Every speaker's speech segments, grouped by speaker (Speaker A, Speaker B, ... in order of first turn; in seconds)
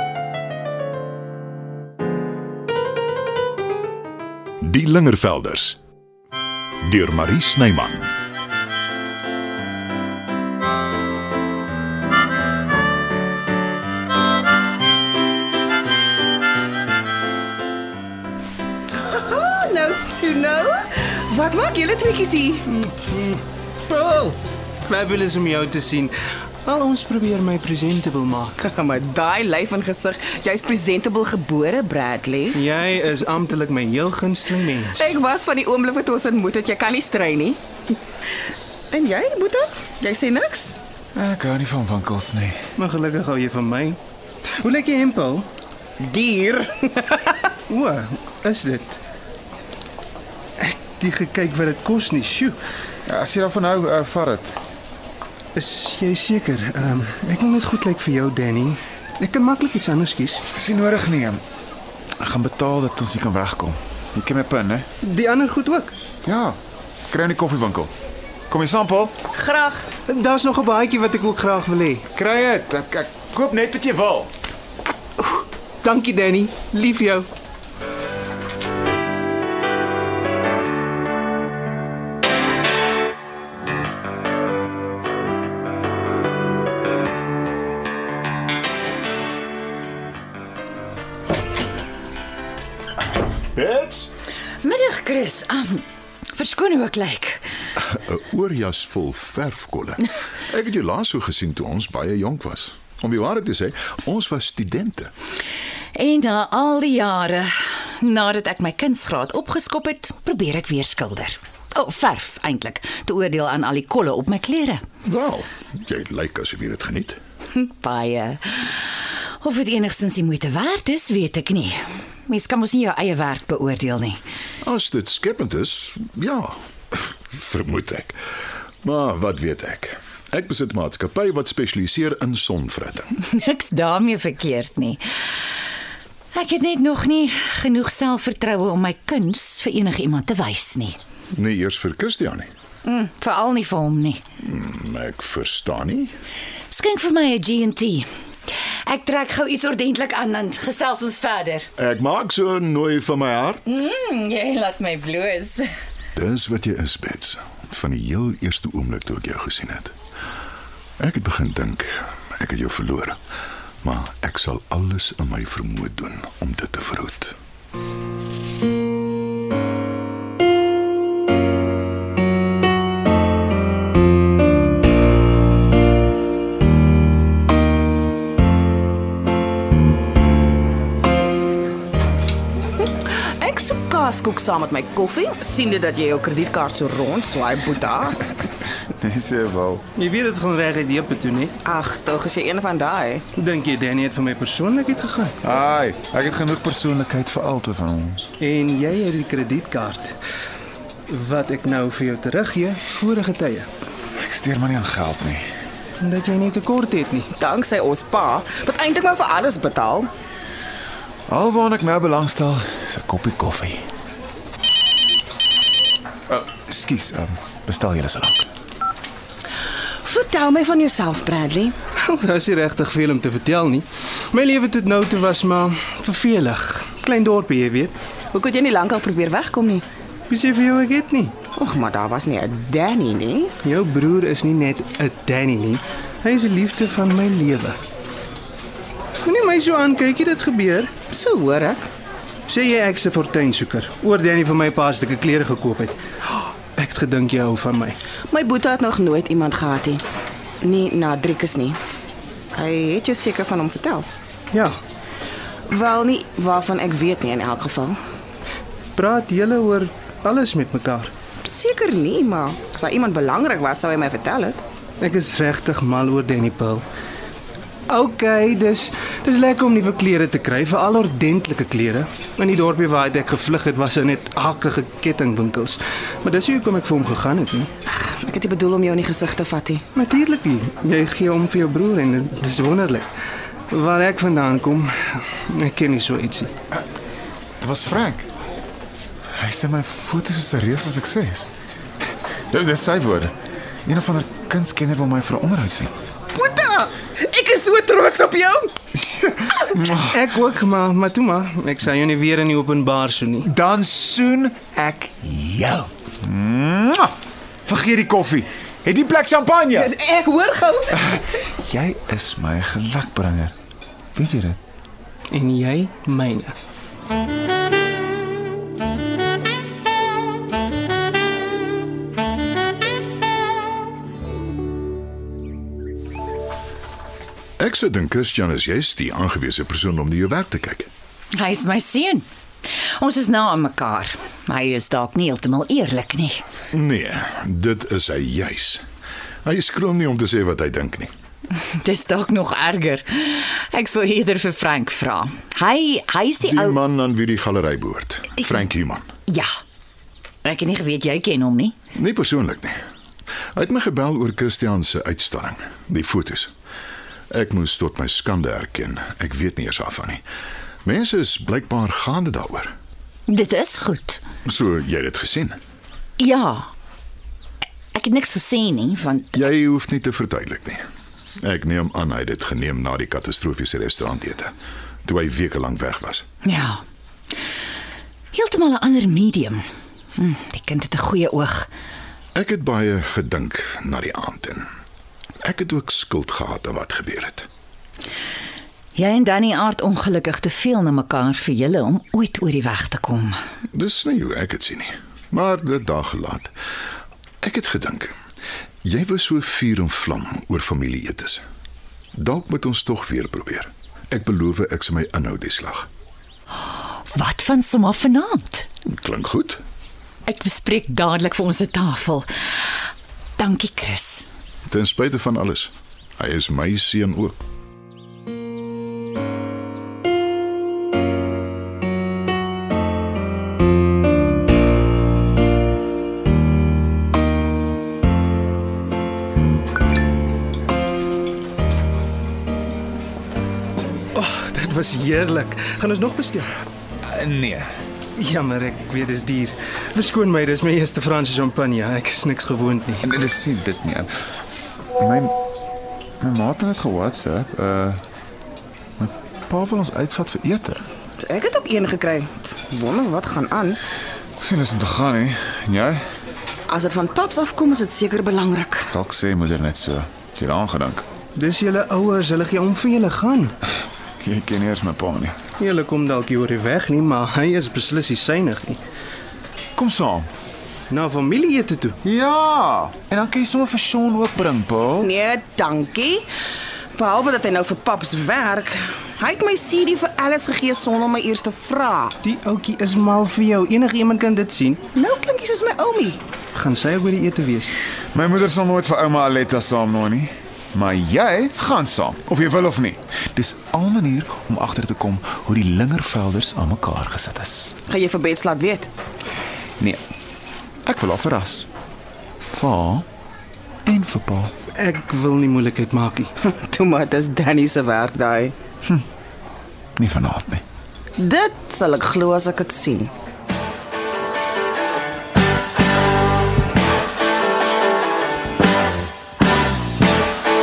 Speaker A: 4.6-5.8, 6.8-8.1, 93.5-94.1, 97.8-105.1, 115.0-117.2, 124.6-126.5, 127.3-128.2, 128.8-133.1, 141.3-142.5, 144.4-146.1, 151.8-153.8, 156.2-159.9, 161.0-163.2, 163.8-167.4, 327.6-330.9, 336.7-338.8, 339.4-341.1, 346.4-349.1, 351.9-352.8, 353.6-356.5, 357.3-360.2, 360.9-362.7, 364.4-365.6, 369.4-370.8, 371.4-374.5, 375.1-376.2, 382.4-384.6, 385.4-387.5, 393.7-396.5, 397.4-398.1, 398.8-401.4, 402.1-405.9, 408.9-409.6, 414.7-417.4
Speaker B: 18.9-22.7, 28.6-32.6, 34.9-37.6, 38.9-40.8, 46.0-47.5, 69.4-69.8, 182.8-188.3, 191.7-193.2, 207.3-210.1, 220.0-221.8, 228.3-229.8, 231.6-233.5, 241.1-241.8, 248.3-250.0, 250.6-251.8, 252.6-254.1, 255.7-258.0, 261.4-264.6, 277.9-279.8, 296.3-298.7, 309.8-311.2, 451.2-453.8, 456.7-458.9, 475.0-476.3, 476.9-482.1, 484.9-486.2, 497.9-498.9, 506.4-508.6, 511.2-513.1
Speaker C: 22.7-26.1, 26.6-28.7, 32.5-35.1, 42.8-44.0, 44.5-45.5, 47.7-49.0, 50.6-52.6, 55.5-60.4, 65.0-65.9, 69.8-72.1, 75.2-77.3, 190.0-191.6, 193.3-195.4, 198.4-200.2, 201.1-203.7, 206.0-207.3, 222.0-228.0, 230.3-231.3, 233.6-237.8, 239.2-240.9, 242.5-248.0, 254.5-254.8, 258.9-261.1, 265.0-266.9, 267.9-277.7, 279.9-283.1, 283.7-286.5, 299.8-303.5, 315.3-316.6, 434.1-436.5, 438.2-443.1, 461.4-463.6, 465.6-468.8, 470.9-472.0, 482.2-484.8, 486.5-487.8, 504.8-506.3
Speaker D: 41.1-42.6, 53.1-54.6, 60.5-61.4, 62.2-64.9, 66.2-66.6, 67.1-67.9, 68.5-69.2, 72.1-74.3, 188.8-189.8, 195.4-198.2, 204.2-205.4, 211.3-213.8, 216.3-218.5, 287.6-288.3, 289.4-291.5, 292.5-293.3, 293.9-295.9, 299.2-300.1, 303.4-307.1, 307.7-309.9, 311.1-313.5, 314.1-314.6, 437.0-437.7, 443.0-444.1, 445.0-445.4, 446.2-448.0, 449.0-450.8, 454.4-456.0, 458.9-461.1, 464.2-465.4, 469.8-470.3, 472.0-475.1, 488.1-497.7, 500.8-501.7, 502.5-503.1, 503.9-504.5, 510.0-510.6
Speaker E: 94.6-97.4, 106.0-114.8, 117.5-124.2, 133.2-135.0, 136.3-141.0, 142.8-144.2, 146.7-148.1, 148.9-151.7, 153.7-155.7, 331.4-332.2, 333.0-336.4, 341.5-346.8, 350.4-351.8, 363.3-364.2, 366.2-366.7, 367.9-369.4, 376.4-376.8, 378.3-379.6, 380.2-381.7, 389.0-393.4, 407.1-408.7, 410.3-412.3, 413.4-414.3